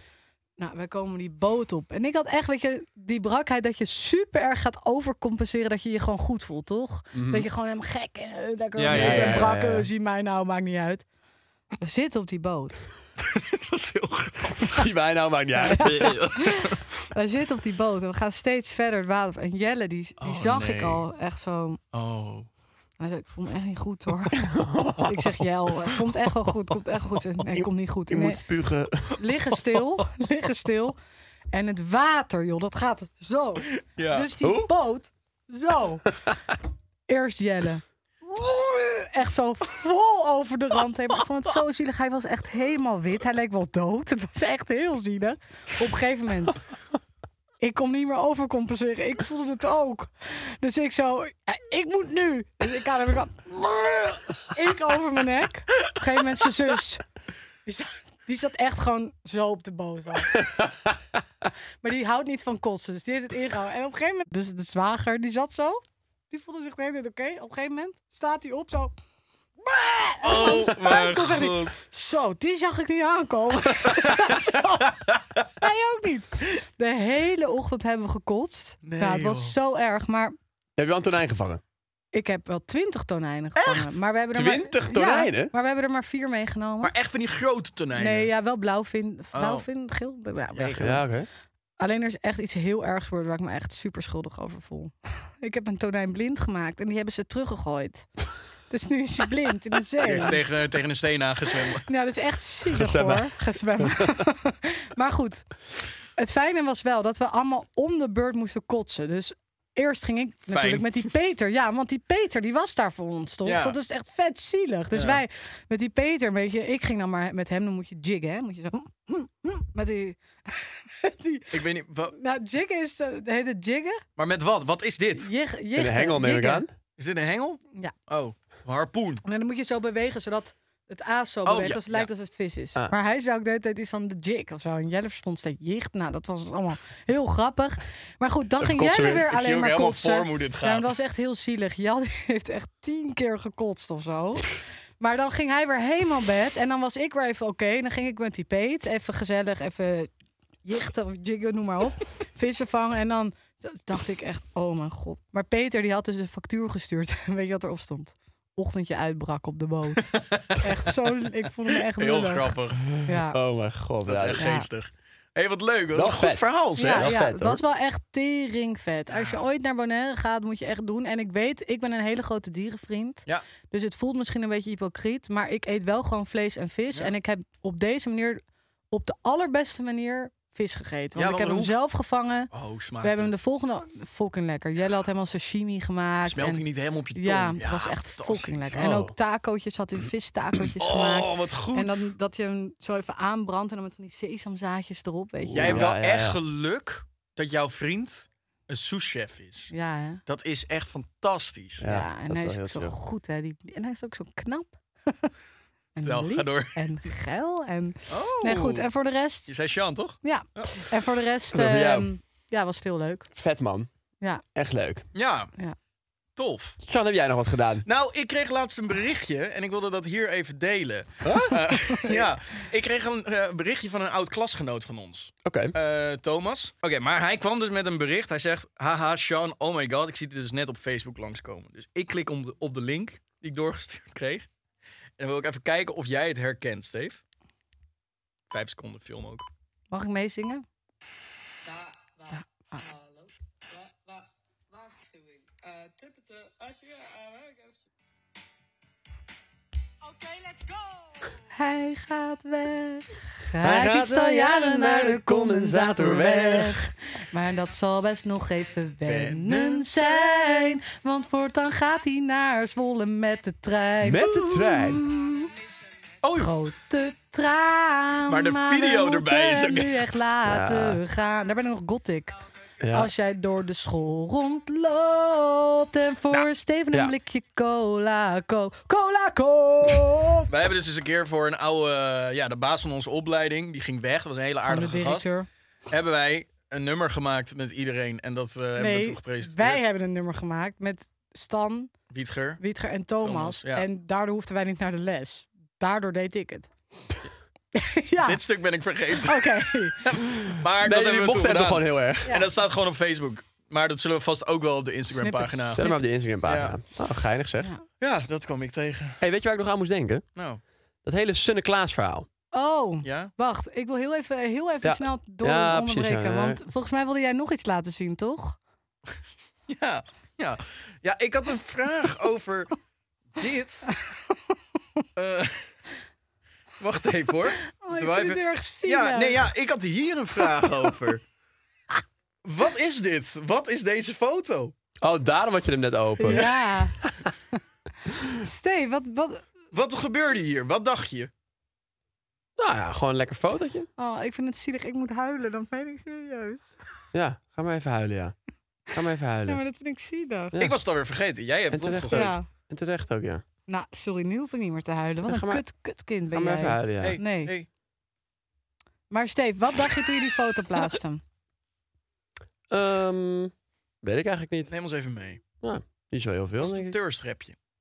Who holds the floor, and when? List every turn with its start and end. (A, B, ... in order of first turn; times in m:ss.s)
0:00.6-0:11.0 A
0:07.1-0:07.5 B
0:08.8-0:09.5 C
0:08.9-0:09.9 B
0:11.8-0:12.8 A
0:13.2-0:14.8 C
0:14.6-0:16.2 B
0:15.6-0:21.8 A
0:15.7-0:16.8 C
0:20.2-0:21.0 C
0:21.9-0:22.5 C
0:23.0-0:24.5 A
0:24.5-0:25.2 B
0:25.0-0:28.4 A
0:28.1-0:29.2 B
0:29.2-0:31.0 A
0:31.5-0:36.1 A
0:33.8-0:34.3 C
0:34.4-0:34.7 B
0:37.1-0:46.6 A
0:47.6-0:57.0 A
0:57.6-1:00.5 A
1:01.8-1:08.9 A
1:09.6-1:14.9 A
1:10.2-1:11.8 C
1:15.6-1:20.4 A
1:18.8-1:19.5 C
1:20.8-1:21.6 B
1:22.1-1:26.9 A
1:23.6-1:24.0 C
1:24.3-1:25.5 B
1:26.8-1:28.3 C
1:28.0-1:31.0 A
1:29.3-1:29.6 C
1:30.5-1:30.8 C
1:30.8-1:31.3 B
1:31.8-1:38.1 A
1:38.7-1:40.4 A
1:40.0-1:41.8 C
1:41.8-1:45.5 A
1:42.7-1:44.0 B
1:46.1-2:01.6 A
1:50.5-1:51.0 C
1:53.4-1:53.8 C
1:54.9-1:55.2 C
2:01.5-2:02.2 C
2:02.1-2:04.0 A
2:04.2-2:05.3 C
2:05.2-2:06.6 A
2:05.7-2:06.7 B
2:07.0-2:09.2 C
2:09.2-2:30.1 A
2:11.4-2:12.1 C
2:18.6-2:19.2 B
2:19.0-2:20.9 C
2:30.6-2:43.4 A
2:40.1-2:40.6 C
2:42.0-2:42.8 C
2:42.9-2:44.4 B
2:44.0-2:47.1 C
2:44.4-2:44.7 A
2:45.9-2:47.6 B
2:46.8-3:02.5 A
2:49.1-2:49.4 C
3:01.1-3:01.8 C
3:02.5-3:03.4 C
3:03.0-3:06.6 A
3:06.2-3:08.8 C
3:07.1-3:15.8 A
3:08.8-3:09.1 B
3:10.8-3:12.1 C
3:15.4-3:16.4 B
3:15.5-3:19.7 C
3:19.7-3:20.2 A
3:20.2-3:21.8 C
3:21.8-3:22.9 B
3:21.8-3:25.3 A
3:25.9-3:29.5 A
3:26.0-3:26.8 C
3:28.1-3:28.9 C
3:29.5-3:30.7 C
3:30.2-3:33.3 A
3:31.5-3:32.1 B
3:33.3-3:33.9 B
3:34.5-3:35.1 B
3:35.1-3:35.5 C
3:36.4-3:36.8 C
3:36.8-3:37.8 B
3:37.8-3:54.4 C
3:41.2-3:41.6 B
3:45.4-3:45.7 B
3:55.2-3:57.2 C
3:58.5-3:59.4 C
3:59.9-4:00.6 A
4:02.3-4:02.8 A
4:06.0-4:06.8 B
4:11.5-4:25.5 A
4:13.6-4:16.8 B
4:19.0-4:20.2 C
4:24.0-4:25.0 B
4:26.2-4:26.5 C
4:26.4-4:32.4 A
4:28.3-4:30.2 C
4:30.5-4:31.0 B
4:32.8-4:33.1 B
4:32.9-4:40.5 A
4:40.5-4:45.3 C
4:44.6-4:45.5 A
4:45.9-4:49.8 C
4:48.8-4:51.9 A
4:52.1-4:52.6 C
4:52.6-4:56.7 A
4:53.2-4:53.8 C
4:57.7-4:58.4 A
4:58.2-5:05.8 C
4:59.2-5:00.0 A
5:00.8-5:02.4 B
5:05.2-5:06.5 A
5:05.7-5:07.7 B
5:06.4-5:06.8 C
5:08.0-5:09.2 C
5:09.2-5:10.2 B
5:10.4-5:10.6 C
5:11.0-5:12.3 B
5:12.5-5:18.6 A
5:13.0-5:13.3 C
5:14.8-5:16.6 B
5:19.7-5:22.7 C
5:23.3-5:23.9 C
5:24.0-5:24.4 A
5:25.2-5:25.7 C
5:26.8-5:31.2 C
5:27.7-5:29.5 A
5:32.4-5:34.7 C
5:35.0-5:36.5 B
5:36.2-5:36.9 A
5:38.3-5:39.4 A
5:39.7-5:41.3 C
5:42.6-5:43.9 B
5:44.0-5:46.7 A
5:47.1-5:48.3 B
5:48.9-5:49.6 B
5:49.4-5:50.5 A
5:50.6-5:52.3 C
5:51.7-5:53.4 B
5:52.1-5:52.4 A
5:53.7-5:57.5 A
5:55.2-5:55.6 B
5:56.3-5:57.2 B
5:57.0-5:57.7 C
5:59.1-6:01.2 A
6:02.7-6:04.7 B
6:04.7-6:05.4 C
6:05.6-6:07.0 B
6:06.6-6:07.6 C